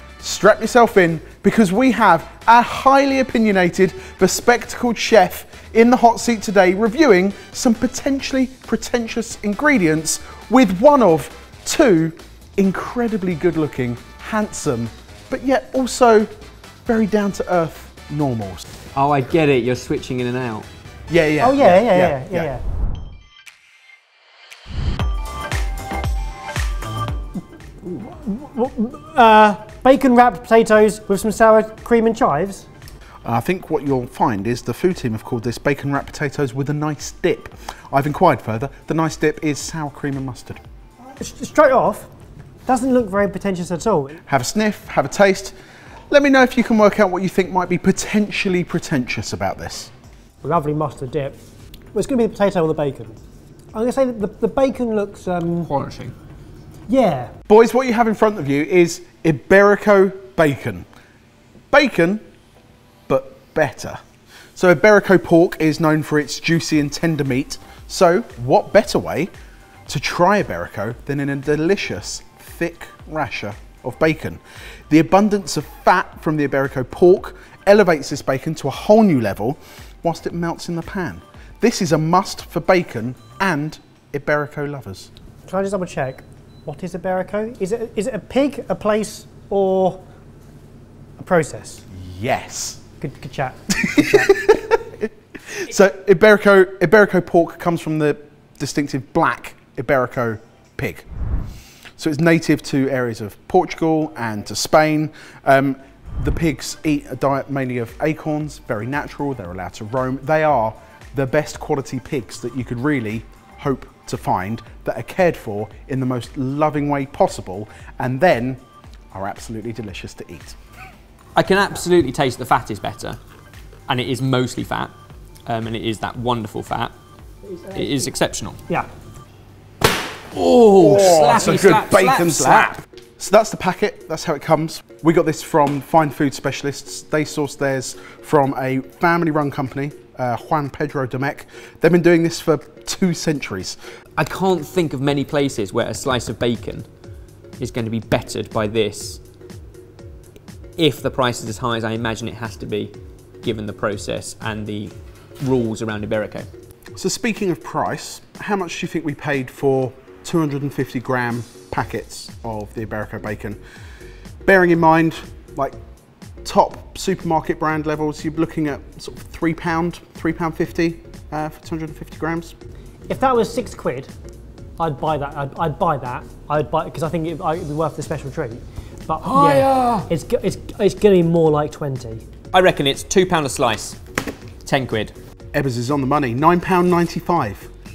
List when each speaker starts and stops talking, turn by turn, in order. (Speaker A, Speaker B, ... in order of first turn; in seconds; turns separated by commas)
Speaker A: 0.2-16.3, Speaker A: 16.9-18.6, Speaker B: 18.9-20.6, Speaker A: 21.1-22.5, Speaker C: 21.4-22.6, Speaker C: 27.8-32.7, Speaker A: 33.2-40.6, Speaker C: 41.0-42.1, Speaker C: 42.6-44.2, Speaker A: 44.3-45.5, Speaker A: 46.1-49.9, Speaker C: 50.4-51.4, Speaker C: 51.9-53.2, Speaker C: 53.7-55.7, Speaker B: 55.6-56.1, Speaker C: 56.9-57.3, Speaker A: 57.5-60.9, Speaker A: 61.7-62.2, Speaker A: 63.1-64.0, Speaker A: 64.5-69.3, Speaker A: 69.9-85.1, Speaker C: 85.5-90.0, Speaker C: 91.2-91.8, Speaker A: 91.9-92.8, Speaker C: 93.0-94.3, Speaker A: 94.0-101.0, Speaker A: 102.0-120.6, Speaker B: 121.3-123.2, Speaker B: 123.9-124.9, Speaker B: 125.5-126.9, Speaker C: 127.4-128.1, Speaker B: 127.7-128.6, Speaker B: 130.3-132.8, Speaker A: 130.7-143.8, Speaker B: 144.2-146.9, Speaker B: 147.6-149.2, Speaker B: 150.8-156.5, Speaker A: 156.9-163.6, Speaker A: 164.4-165.8, Speaker A: 166.4-172.6, Speaker C: 173.1-174.1, Speaker C: 174.8-182.2, Speaker B: 179.2-180.1, Speaker B: 182.5-184.0, Speaker B: 184.6-185.1, Speaker A: 185.5-187.7